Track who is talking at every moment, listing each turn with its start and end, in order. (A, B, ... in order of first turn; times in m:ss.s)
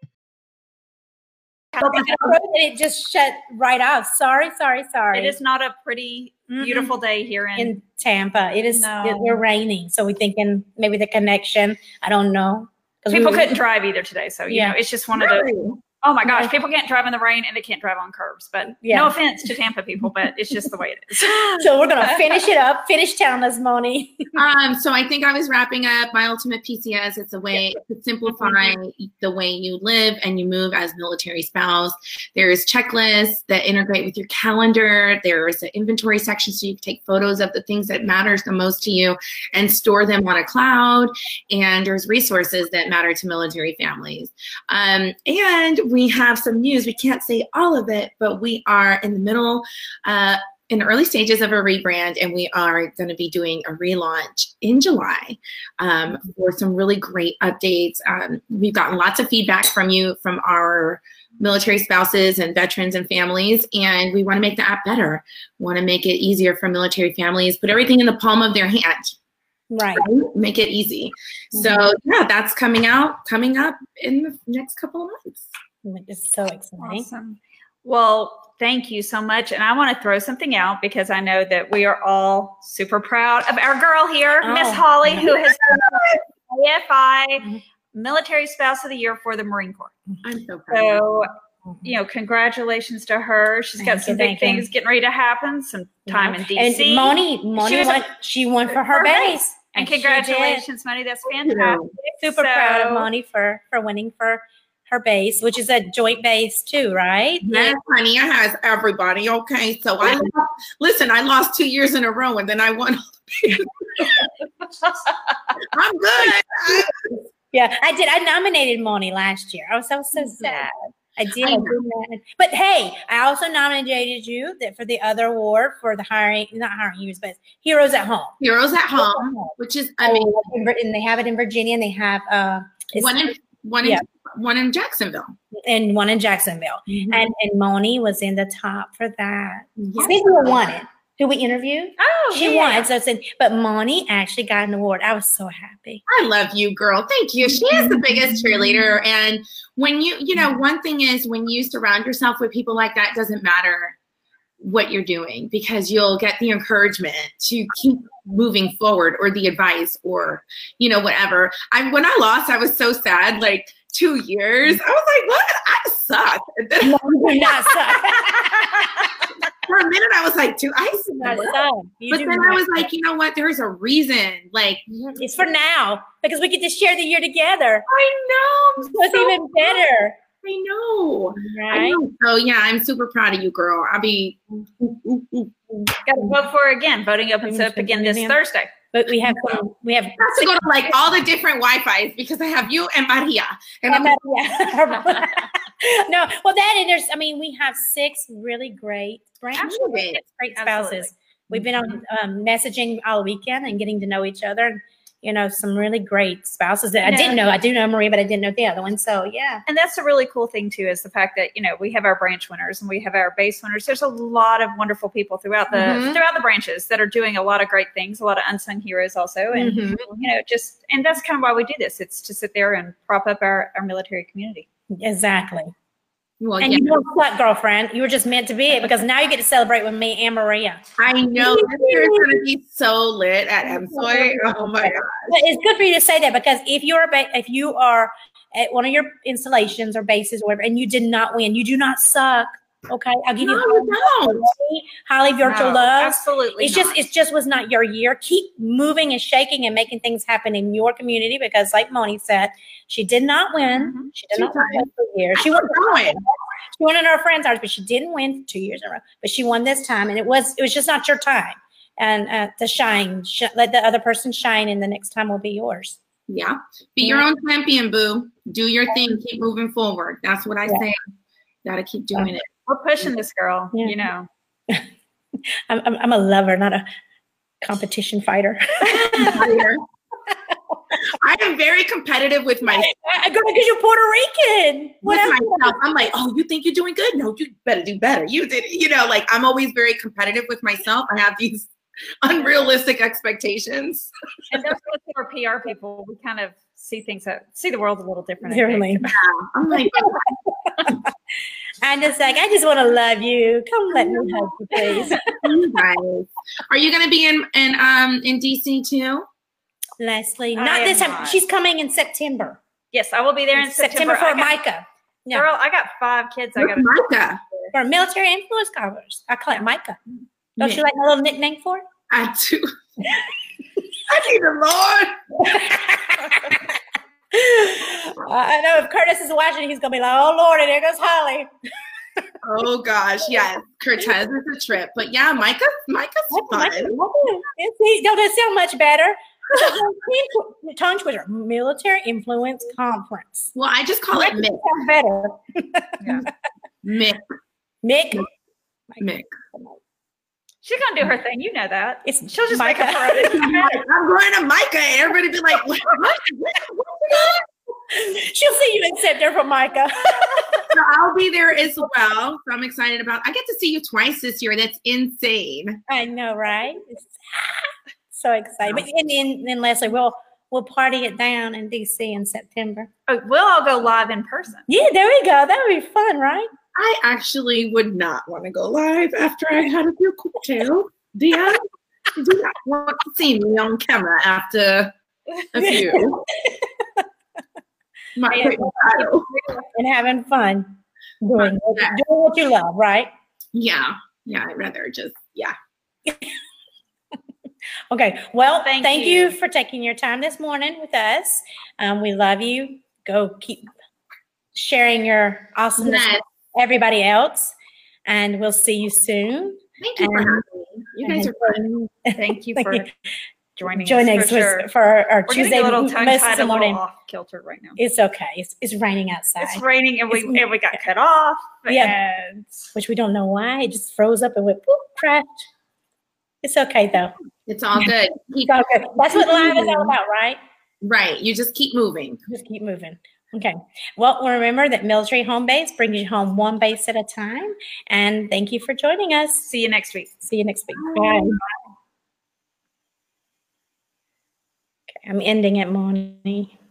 0:01.7-0:02.2 A
0:01.8-0:02.3 B
0:01.8-0:05.4 C
0:05.1-0:07.8 A
0:06.6-0:06.9 C
0:07.6-0:13.6 C
0:08.7-0:09.4 A
0:13.1-0:22.2 A
0:14.5-0:14.8 C
0:15.2-0:15.8 B
0:16.2-0:16.5 C
0:18.8-0:19.2 C
0:21.5-0:24.3 C
0:24.3-1:09.1 B
1:09.7-1:10.0 C
1:10.0-1:15.5 B
1:11.5-1:11.8 C
1:15.8-1:17.1 C
1:16.8-1:29.9 A
1:24.4-1:25.3 C
1:25.3-1:26.2 B
1:30.2-1:31.0 B
1:30.7-1:31.3 A
1:31.8-1:38.1 A
1:33.8-1:34.7 C
1:36.1-1:40.7 C
1:38.7-1:43.1 A
1:41.4-1:41.9 B
1:42.2-1:47.8 C
1:47.4-1:54.1 B
1:54.8-1:55.1 A
1:55.7-1:57.1 B
1:57.5-2:08.4 C
2:01.4-2:01.8 B
2:08.4-2:10.5 B
2:08.9-2:14.0 C
2:12.9-2:15.3 B
2:15.6-2:26.0 C
2:16.9-2:17.2 B
2:19.8-2:20.6 B
2:22.0-2:22.9 A
2:26.1-2:33.9 B
2:27.6-2:28.9 C
2:34.6-2:49.1 B
2:46.8-2:49.3 C
2:49.6-2:55.1 B
2:51.2-2:52.9 C
2:55.1-2:57.9 C
2:57.9-2:59.8 B
2:58.8-3:00.2 C
3:00.4-3:05.5 B
3:01.4-3:02.0 C
3:06.0-3:08.7 A
3:07.4-3:08.4 C
3:08.9-3:10.9 C
3:10.2-3:14.8 B
3:13.9-3:29.6 C
3:19.6-3:20.2 B
3:19.6-3:21.1 A
3:27.0-3:27.4 A
3:29.6-3:44.6 A
3:35.7-3:36.2 B
3:39.5-3:40.2 B
3:45.0-3:45.7 C
3:46.4-3:47.0 B
3:46.6-3:50.8 C
3:51.0-3:55.4 B
3:51.4-3:52.4 C
3:53.6-4:26.0 C
4:03.4-4:04.5 B
4:05.4-4:07.0 A
4:13.7-4:14.1 A
4:14.3-4:16.2 B
4:26.3-4:31.0 B
4:31.6-4:32.5 B
4:32.7-4:34.3 A
4:33.7-4:34.0 C
4:35.7-4:36.8 C
4:37.6-4:39.5 C
4:38.8-4:39.8 B
4:41.2-4:42.9 B
4:42.6-4:45.8 C
4:45.0-4:54.1 B
4:54.5-4:59.0 A
4:58.4-4:59.1 C
4:59.0-5:00.3 B
4:59.8-5:01.1 C
5:01.8-5:05.4 C
5:04.7-5:05.1 A
5:05.4-5:09.2 B
5:10.0-5:12.6 C
5:10.5-5:11.4 A
5:12.9-5:14.6 A
5:13.5-5:15.5 C
5:15.3-5:17.0 A
5:16.6-5:17.4 B
5:17.7-5:20.0 C
5:20.6-5:21.8 C
5:20.6-5:20.8 B
5:22.1-5:22.7 B
5:24.1-5:25.2 B
5:25.4-5:26.6 C
5:27.3-5:31.5 C
5:32.4-5:37.0 B
5:36.3-5:43.5 C
5:43.5-5:44.6 B
5:44.1-5:46.3 C
5:46.0-5:46.3 A
5:46.8-5:47.2 B
5:47.8-5:48.3 C
5:48.9-5:49.8 C
5:49.0-5:49.3 B
5:50.6-5:53.6 A
5:52.0-5:53.6 C
5:53.2-5:57.4 B
5:57.9-6:00.7 C
6:00.7-6:05.8 B
6:05.9-6:12.9 C
6:13.1-6:14.6 A
6:14.7-6:16.5 C
6:16.7-6:21.6 B
6:22.2-6:24.9 B
6:25.5-6:26.3 B
6:25.7-6:26.6 C
6:28.2-6:29.3 B
6:28.3-6:29.6 A
6:29.7-6:33.1 C
6:31.4-6:32.0 B
6:33.5-6:35.5 B
6:37.9-6:43.7 C
6:38.6-6:39.4 A
6:44.5-6:47.5 C
6:45.8-6:46.2 B
6:48.1-6:50.4 C
6:49.8-6:51.6 B
6:51.0-6:52.9 C
6:52.2-6:52.9 A
6:53.6-6:54.7 A
6:53.7-6:56.8 C
6:55.3-6:57.8 A
6:57.8-7:00.8 C
6:59.4-7:02.4 A
7:01.7-7:05.4 C
7:06.4-7:07.1 C
7:07.5-7:09.9 B
7:08.4-7:10.4 C
7:10.8-7:12.2 B
7:12.3-7:19.5 C
7:19.4-7:20.1 A
7:20.2-7:21.4 C
7:20.7-7:21.4 B
7:25.0-7:26.5 C